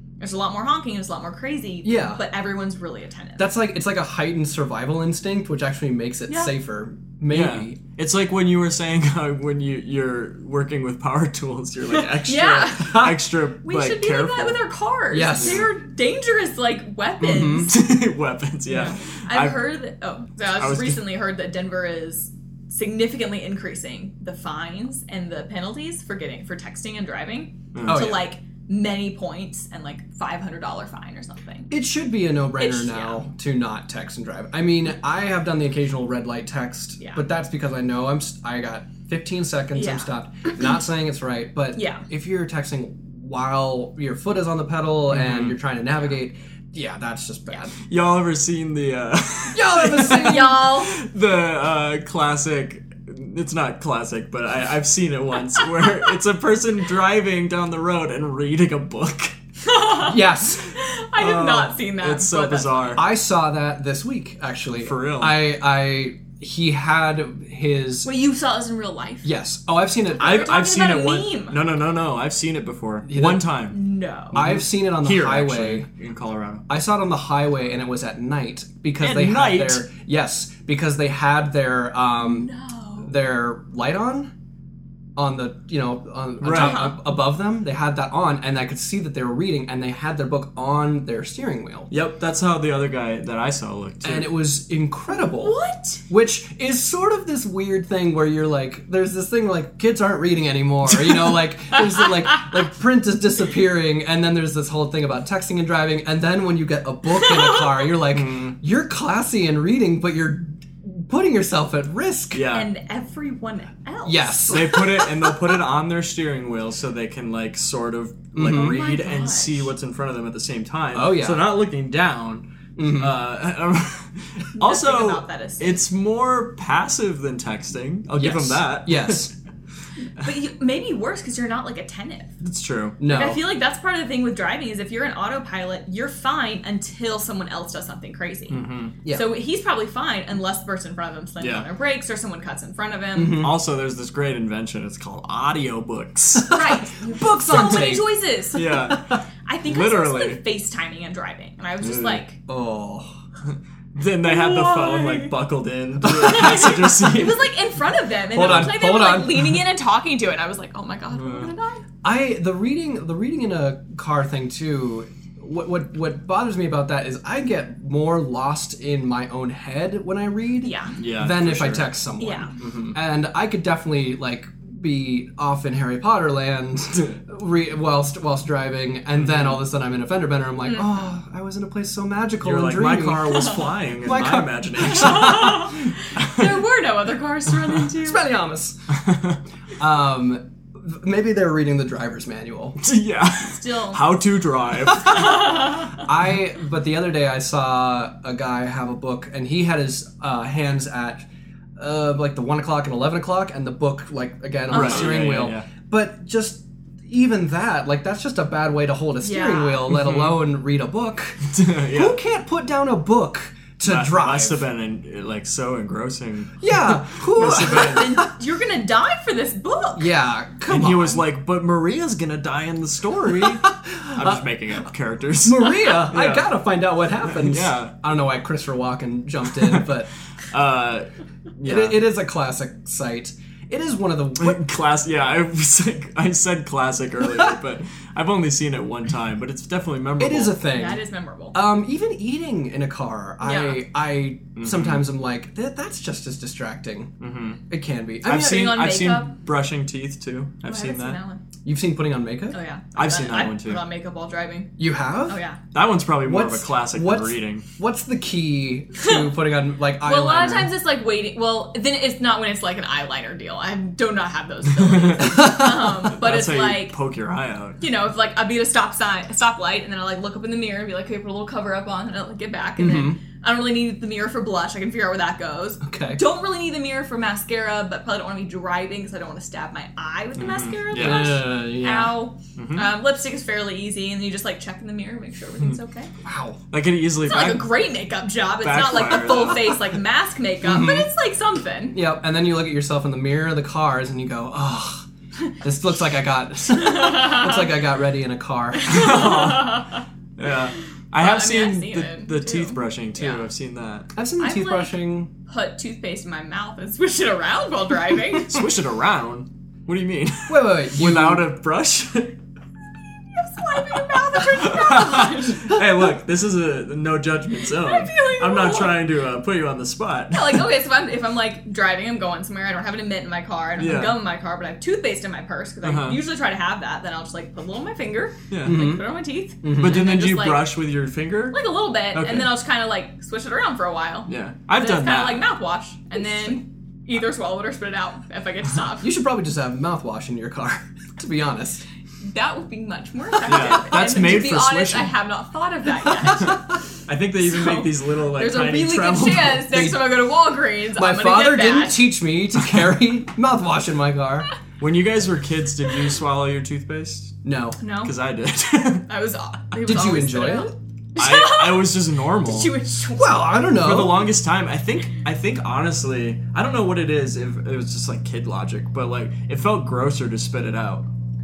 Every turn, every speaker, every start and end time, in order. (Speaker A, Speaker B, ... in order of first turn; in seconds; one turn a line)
Speaker A: 0.2-3.5
Speaker B: 1.8-2.2
Speaker B: 3.4-7.8
Speaker A: 6.3-6.5
Speaker C: 7.3-14.6
Speaker A: 12.2-17.7
Speaker B: 15.1-15.7
Speaker C: 15.4-15.7
Speaker B: 17.2-17.7
Speaker C: 17.7-19.6
Speaker A: 18.7-31.7
Speaker C: 20.6-21.0
Speaker C: 27.7-28.1
Speaker B: 27.9-28.2
Speaker B: 31.7-47.7
Speaker A: 32.6-33.2
Speaker A: 39.7-40.6
Speaker A: 41.8-42.1
Speaker C: 45.1-45.6
Speaker C: 47.9-59.4
Speaker B: 49.5-50.6
Speaker A: 50.0-51.0
Speaker A: 59.6-63.0
Speaker B: 60.0-60.7
Speaker C: 61.2-63.0
Speaker B: 63.0-68.1
Speaker C: 64.8-65.4
Speaker A: 68.0-69.3
Speaker B: 69.2-70.5
Speaker A: 70.1-71.6
Speaker C: 70.2-73.8
Speaker B: 73.1-73.5
Speaker A: 73.7-74.4
Speaker C: 74.3-76.6
Speaker B: 74.3-75.9
Speaker B: 76.7-84.3
Speaker C: 79.0-79.9
Speaker A: 82.2-83.1
Speaker B: 85.2-91.9
Speaker C: 86.4-86.9
Speaker A: 86.5-87.0
Speaker C: 91.9-94.3
Speaker B: 94.0-95.6
Speaker A: 95.1-96.0
Speaker B: 96.1-112.4
Speaker A: 107.1-107.7
Speaker C: 108.1-108.6
Speaker C: 112.3-112.7
Speaker A: 112.5-115.3
Speaker B: 114.0-114.9
Speaker C: 114.5-129.3
Speaker B: 118.3-118.8
Speaker A: 118.4-119.7
Speaker B: 120.9-121.5
Speaker B: 122.8-123.2
Speaker A: 124.6-125.8
Speaker B: 128.2-129.3
Speaker A: 130.2-132.3
Speaker C: 132.4-133.0
Speaker B: 133.0-133.4
Speaker A: 133.1-143.5
Speaker C: 138.5-138.9
Speaker C: 141.4-141.7
Speaker B: 143.2-143.6
Speaker C: 143.4-146.6
Speaker B: 146.4-148.1
Speaker A: 146.5-152.4
Speaker C: 148.5-150.4
Speaker C: 151.8-152.2
Speaker B: 152.5-153.1
Speaker C: 153.4-157.5
Speaker A: 154.2-155.3
Speaker A: 156.1-161.8
Speaker B: 156.2-156.6
Speaker B: 158.3-159.6
Speaker C: 158.3-158.8
Speaker C: 161.1-161.5
Speaker B: 162.0-185.5
Speaker A: 170.6-171.0
Speaker C: 171.0-171.9
Speaker A: 172.2-172.6
Speaker C: 172.6-173.0
Speaker C: 179.2-179.6
Speaker A: 180.7-181.0
Speaker C: 182.4-186.6
Speaker A: 183.4-183.6
Speaker A: 184.8-188.2
Speaker B: 188.0-188.8
Speaker C: 188.9-189.4
Speaker B: 189.8-192.8
Speaker C: 192.8-195.8
Speaker A: 193.4-194.0
Speaker A: 195.0-196.1
Speaker B: 196.0-214.6
Speaker A: 204.7-205.2
Speaker C: 204.7-205.7
Speaker A: 209.2-209.9
Speaker C: 209.9-210.4
Speaker C: 211.4-212.2
Speaker C: 213.8-218.2
Speaker B: 216.6-218.3
Speaker A: 217.4-220.1
Speaker B: 220.0-221.2
Speaker C: 220.7-226.5
Speaker B: 223.2-224.4
Speaker B: 225.4-230.1
Speaker C: 227.2-227.9
Speaker C: 230.5-232.0
Speaker B: 231.7-234.6
Speaker C: 234.4-240.6
Speaker B: 240.2-241.0
Speaker A: 240.7-241.6
Speaker B: 241.5-247.1
Speaker A: 243.4-243.8
Speaker C: 244.6-245.1
Speaker C: 247.2-247.6
Speaker B: 247.7-248.7
Speaker C: 248.2-251.2
Speaker A: 248.4-249.4
Speaker A: 250.7-251.4
Speaker B: 251.7-252.6
Speaker A: 252.5-254.7
Speaker C: 253.0-253.8
Speaker B: 254.8-255.4
Speaker A: 255.3-255.6
Speaker C: 255.7-257.6
Speaker B: 256.2-260.7
Speaker A: 259.0-259.3
Speaker A: 260.0-267.0
Speaker C: 264.7-267.8
Speaker B: 265.2-265.9
Speaker A: 267.8-286.1
Speaker B: 272.8-273.2
Speaker B: 275.8-276.2
Speaker C: 280.4-281.4
Speaker B: 280.9-282.1
Speaker C: 282.6-282.9
Speaker B: 286.2-286.6
Speaker C: 286.7-287.8
Speaker A: 287.2-292.0
Speaker C: 288.6-289.8
Speaker B: 290.6-291.1
Speaker B: 291.9-295.1
Speaker B: 295.6-299.1
Speaker A: 296.8-297.7
Speaker A: 298.7-300.0
Speaker C: 298.9-304.1
Speaker A: 301.2-303.5
Speaker B: 304.1-305.3
Speaker A: 304.4-304.9
Speaker A: 305.5-308.6
Speaker C: 308.4-312.4
Speaker B: 310.5-311.4
Speaker A: 313.3-315.7
Speaker C: 314.0-320.7
Speaker A: 317.7-319.0
Speaker A: 320.3-330.7
Speaker C: 323.8-324.2
Speaker C: 325.8-326.2
Speaker C: 328.5-328.8
Speaker B: 328.6-329.1
Speaker B: 329.6-330.0
Speaker C: 329.8-331.6
Speaker A: 331.5-339.1
Speaker C: 332.1-332.5
Speaker C: 334.3-335.5
Speaker B: 339.0-341.9
Speaker A: 342.2-346.7
Speaker C: 343.5-345.2
Speaker C: 346.4-349.9
Speaker A: 347.4-352.1
Speaker B: 349.7-350.1
Speaker B: 351.0-354.5
Speaker C: 354.8-357.4
Speaker B: 357.4-357.8
Speaker A: 357.8-358.1
Speaker C: 358.0-359.1
Speaker A: 359.1-363.4
Speaker B: 359.8-360.8
Speaker C: 361.2-362.7
Speaker B: 363.1-364.4
Speaker C: 363.8-371.1